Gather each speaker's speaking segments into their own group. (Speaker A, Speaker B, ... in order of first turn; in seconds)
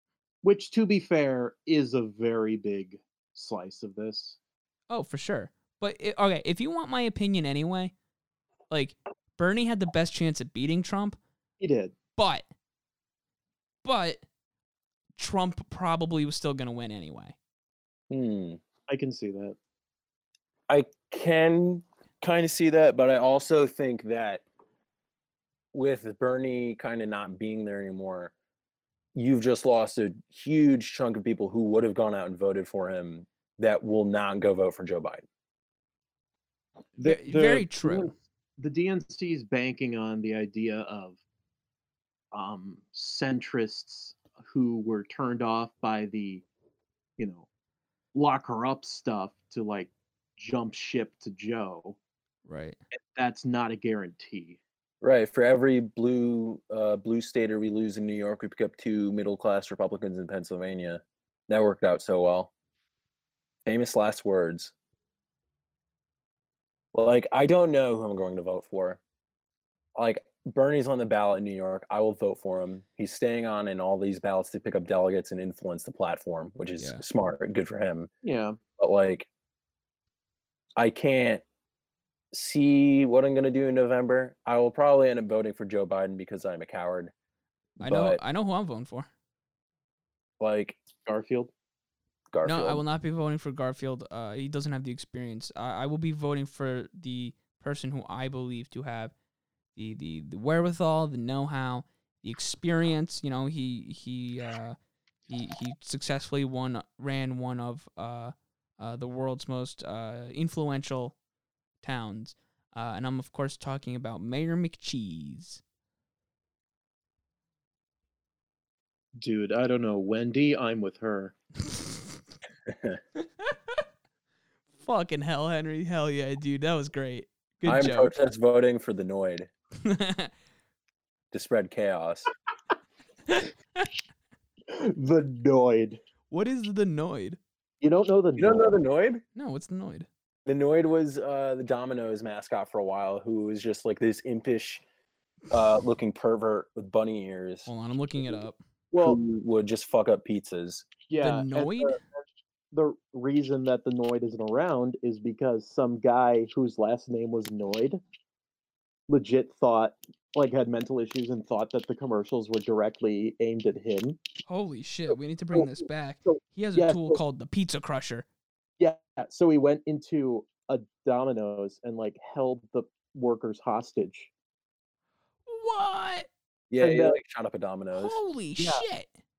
Speaker A: 0.4-4.4, 11.6-12.0, 18.9-19.6, 37.0-41.2, 42.3-46.4, 47.2-47.5, 48.1-52.0, 53.1-54.6, 78.2-78.6, 91.0-91.5, 119.2-121.3, 134.7-136.0, 137.8-138.8, 148.9-149.2, 151.1-158.0, 159.1-164.2, 165.5-167.2, 168.8-174.3, 176.8-177.2, 178.6-178.8
Speaker B: 4.9-7.9, 8.7-11.2, 12.2-12.4, 13.8-14.2, 15.2-17.3, 37.0-38.1, 52.5-52.8, 87.8-89.1, 92.4-99.1, 99.8-104.8, 105.3-111.1, 111.8-115.6, 124.8-128.1, 129.8-130.3, 133.3-133.9, 136.3-137.4, 139.4-140.1, 147.7-148.6, 151.2-152.0, 164.5-168.2, 175.4-176.3, 177.9-179.1
Speaker C: 18.1-18.6, 20.7-24.4, 25.7-28.3, 29.1-35.2, 55.0-62.5, 63.6-64.7, 66.9-69.0, 70.0-78.1, 78.8-79.3, 80.8-81.4, 82.3-87.1, 87.8-88.2, 90.4-90.8, 92.3-92.8, 122.7-123.0, 127.6-129.5, 131.3-132.3, 138.4-139.2, 140.4-144.8, 145.5-147.7, 149.0-150.9, 176.7-178.2